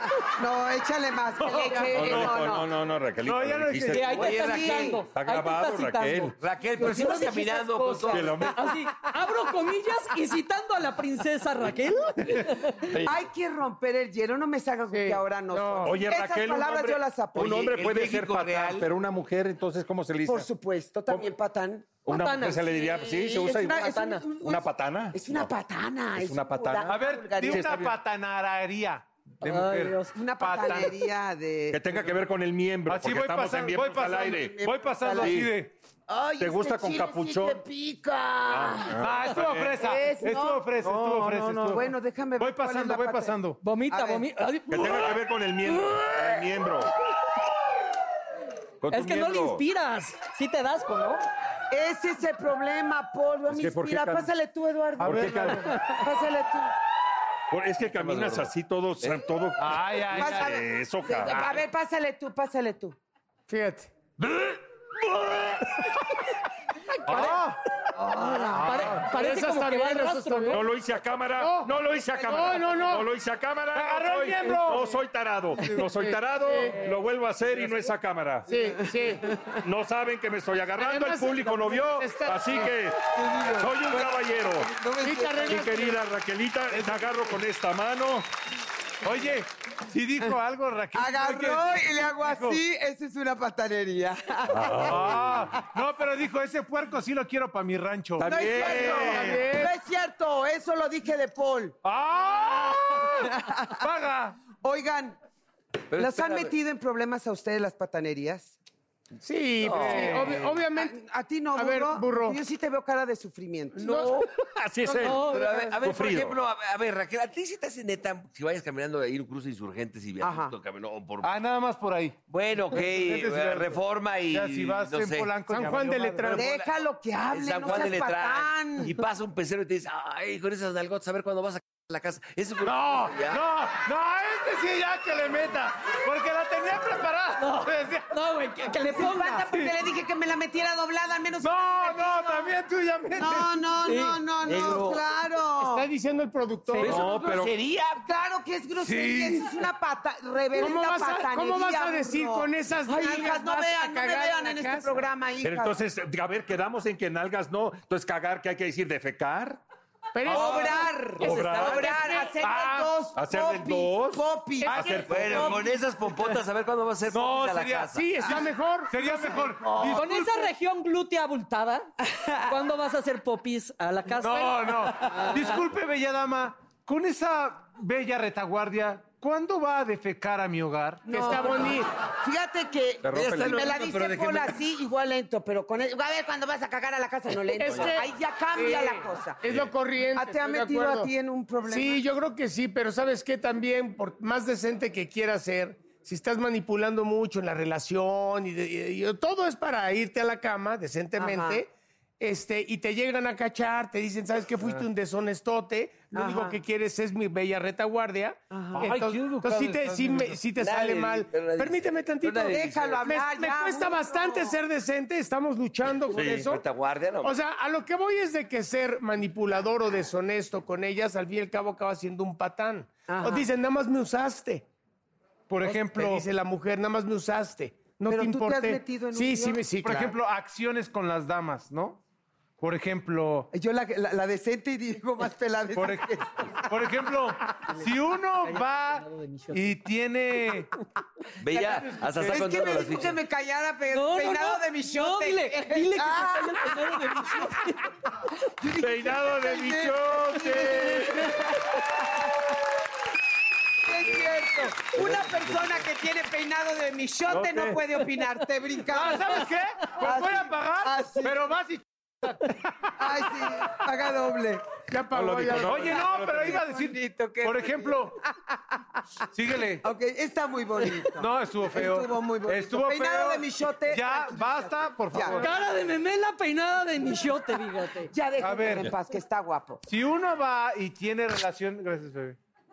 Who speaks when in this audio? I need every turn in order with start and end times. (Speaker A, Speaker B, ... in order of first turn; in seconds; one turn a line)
Speaker A: 0.2-2.7
Speaker B: 1.4-2.5
Speaker C: 1.9-4.2
Speaker B: 3.2-4.3
Speaker D: 3.9-6.3
Speaker E: 4.1-5.0
Speaker A: 4.3-5.0
Speaker C: 5.1-6.4
Speaker E: 6.4-8.5
Speaker A: 6.8-8.5
Speaker F: 7.2-8.0
Speaker C: 8.1-8.6
Speaker D: 8.5-12.9
Speaker A: 12.9-17.8
Speaker F: 14.9-16.0
Speaker C: 15.8-20.5
Speaker E: 17.4-18.9
Speaker A: 20.2-21.9
Speaker C: 22.1-25.5
Speaker D: 22.1-24.2
Speaker A: 23.2-27.8
Speaker C: 26.2-27.9
Speaker B: 26.9-31.0
Speaker D: 29.4-30.1
Speaker A: 30.1-32.1
Speaker C: 31.7-34.6
Speaker B: 32.9-35.7
Speaker A: 34.0-35.5
Speaker C: 35.2-35.5
Speaker A: 36.1-39.0
Speaker C: 36.4-37.6
Speaker C: 38.5-39.9
Speaker B: 39.0-43.6
Speaker A: 39.8-43.4
Speaker D: 43.6-46.2
Speaker A: 43.9-44.2
Speaker C: 44.7-46.9
Speaker C: 48.8-49.6
Speaker D: 48.9-51.2
Speaker A: 51.7-56.7
Speaker C: 53.5-54.3
Speaker B: 55.0-55.7
Speaker C: 55.0-55.7
Speaker C: 57.5-61.6
Speaker E: 57.9-58.5
Speaker B: 59.6-60.6
Speaker A: 60.1-63.0
Speaker F: 63.5-63.9
Speaker B: 64.2-64.6
Speaker B: 65.2-65.9
Speaker B: 67.1-67.6
Speaker F: 67.1-67.5
Speaker A: 68.0-68.7
Speaker B: 68.6-69.1
Speaker D: 68.7-70.6
Speaker F: 68.7-70.6
Speaker C: 70.5-78.5
Speaker F: 71.4-73.1
Speaker B: 73.7-75.0
Speaker F: 75.8-76.8
Speaker F: 78.5-79.2
Speaker C: 79.6-84.7
Speaker F: 80.8-82.7
Speaker A: 83.2-85.5
Speaker F: 85.0-86.0
Speaker C: 85.5-88.3
Speaker B: 86.7-87.2
Speaker B: 89.0-92.6
Speaker A: 90.9-95.2
Speaker C: 94.5-95.5
Speaker B: 94.8-99.1
Speaker C: 98.2-99.4
Speaker A: 98.2-101.8
Speaker F: 99.0-99.7
Speaker B: 101.8-104.3
Speaker A: 103.2-103.8
Speaker A: 104.6-105.2
Speaker E: 105.9-106.5
Speaker A: 105.9-108.6
Speaker F: 109.2-111.0
Speaker E: 109.6-110.4
Speaker B: 109.7-110.2
Speaker A: 109.8-114.1
Speaker F: 111.5-112.4
Speaker F: 113.8-114.2
Speaker E: 113.8-114.2
Speaker C: 114.6-116.4
Speaker F: 114.8-115.8
Speaker D: 115.0-115.8
Speaker E: 115.2-121.4
Speaker A: 120.2-120.6
Speaker B: 121.2-122.2
Speaker E: 122.3-125.4
Speaker B: 122.7-126.4
Speaker F: 125.5-126.5
Speaker A: 126.3-129.0
Speaker E: 126.4-126.8
Speaker E: 127.3-133.4
Speaker B: 132.6-138.1
Speaker D: 137.4-139.5
Speaker A: 138.9-142.5
Speaker B: 141.4-143.5
Speaker A: 143.1-145.8
Speaker D: 143.8-144.2
Speaker E: 144.5-144.9
Speaker F: 145.6-147.0
Speaker D: 146.7-147.0
Speaker C: 146.8-147.5
Speaker E: 146.8-148.0
Speaker A: 148.0-155.8
Speaker B: 148.8-149.5
Speaker F: 150.5-155.0
Speaker C: 155.4-159.6
Speaker F: 160.1-160.9
Speaker E: 160.3-162.0
Speaker A: 160.3-165.7
Speaker C: 161.2-161.8
Speaker D: 161.8-162.3
Speaker B: 162.4-162.9
Speaker C: 163.2-165.6
Speaker B: 164.6-165.8
Speaker E: 165.0-168.4
Speaker B: 167.1-170.5
Speaker F: 167.9-169.9
Speaker D: 169.9-171.9
Speaker D: 172.5-175.6
Speaker B: 174.2-181.1
Speaker F: 181.1-181.9
Speaker A: 181.1-189.4
Speaker C: 183.0-183.7
Speaker E: 183.1-184.6
Speaker F: 187.6-191.1
Speaker C: 189.4-189.7
Speaker A: 190.2-192.0
Speaker F: 191.7-201.7
Speaker A: 201.2-201.6
Speaker F: 202.2-216.6
Speaker A: 206.1-206.6
Speaker A: 208.5-208.8
Speaker B: 208.8-210.5
Speaker E: 210.6-213.1
Speaker A: 212.5-214.6
Speaker C: 216.1-216.4
Speaker E: 216.1-217.3
Speaker F: 217.2-224.6
Speaker A: 223.1-223.5
Speaker B: 225.5-226.2
Speaker F: 225.6-230.1
Speaker A: 228.1-230.1
Speaker B: 229.8-232.0
Speaker B: 232.6-233.5
Speaker A: 233.5-236.7
Speaker B: 235.7-240.7
Speaker D: 238.4-239.8
Speaker E: 241.4-243.2
Speaker A: 241.5-247.6
Speaker B: 241.9-242.3
Speaker D: 243.9-247.9
Speaker A: 248.6-251.4
Speaker C: 248.8-251.3
Speaker A: 253.8-261.5
Speaker E: 254.8-255.8
Speaker C: 257.3-257.8
Speaker B: 258.9-262.9
Speaker A: 263.0-264.8
Speaker F: 264.9-266.0
Speaker C: 265.1-266.7
Speaker B: 265.6-268.2
Speaker A: 267.1-268.0
Speaker B: 269.3-269.8
Speaker A: 269.8-275.4
Speaker B: 271.2-275.5
Speaker D: 275.3-278.1
Speaker A: 278.1-279.8
Speaker B: 278.4-278.9
Speaker B: 279.9-282.4